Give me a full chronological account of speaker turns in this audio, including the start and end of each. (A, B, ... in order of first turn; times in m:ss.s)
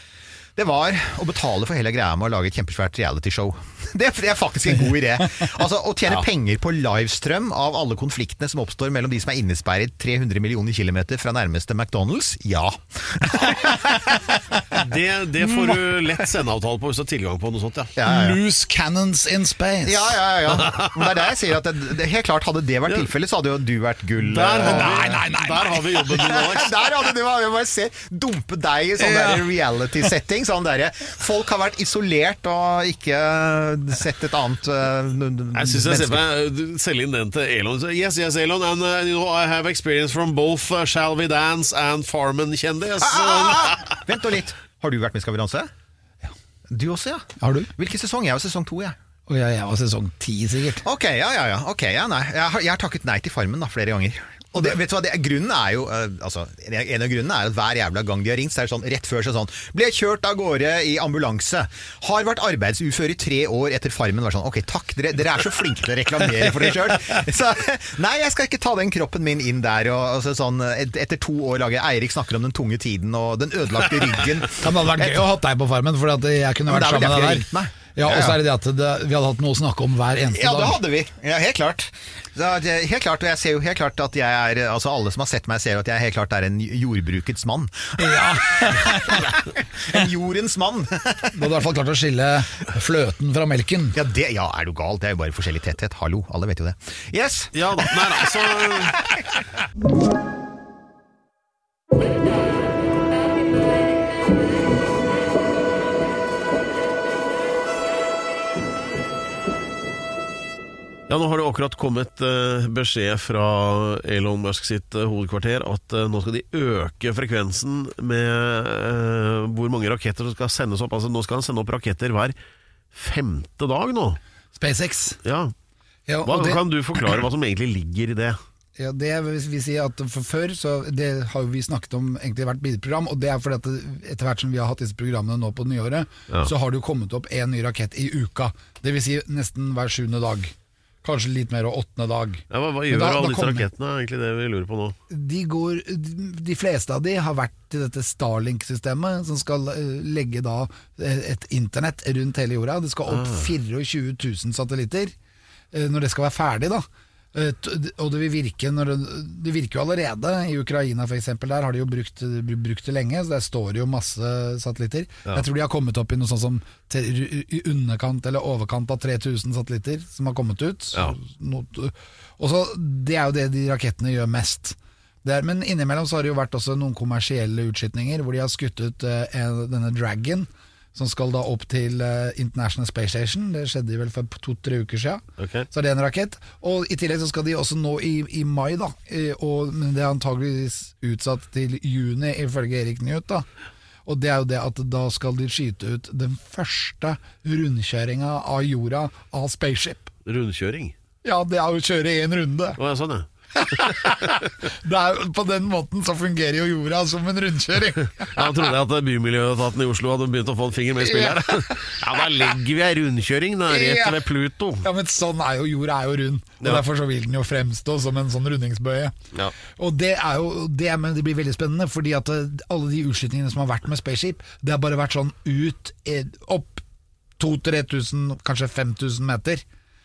0:00.6-0:14.6 A
0:14.8-0:17.9 B
0:18.0-0:18.4 A
0:18.0-0:20.2 C
0:19.8-0:25.1 A
0:20.6-0:21.0 B
0:24.2-0:26.9 B
0:24.6-0:25.9 C
0:26.0-0:36.2 A
0:29.0-0:29.5 C
0:35.5-0:44.0 B
0:43.0-0:45.7 A
0:46.7-0:49.0 A
0:47.4-0:47.7 C
0:49.3-0:50.8 C
0:50.8-1:15.2 A
1:14.6-1:20.8 C
1:16.7-1:18.4 A
1:20.3-1:31.5 A
1:28.0-1:29.3 C
1:31.3-1:34.0 C
1:33.9-1:39.2 A
1:37.5-1:39.0 B
1:51.1-2:02.3 B
2:02.9-2:04.2 B
2:04.6-2:05.2 C
2:05.2-2:05.5 B
2:06.1-2:07.2 C
2:06.2-2:08.4 B
2:08.8-2:23.7 C
2:22.5-2:25.0 B
2:25.1-2:35.1 C
2:33.1-2:33.5 B
2:35.7-3:13.4 C
3:05.4-3:05.7 B
3:14.0-3:20.1 C
3:20.2-3:20.9 B
3:21.2-3:22.8 C
3:22.8-3:24.5 B
3:23.5-3:28.5 C
3:28.2-3:34.8 B
3:31.0-3:32.2 C
3:33.7-3:34.2 C
3:34.8-3:39.1 C
3:39.8-3:46.8 C
3:47.4-3:49.6 C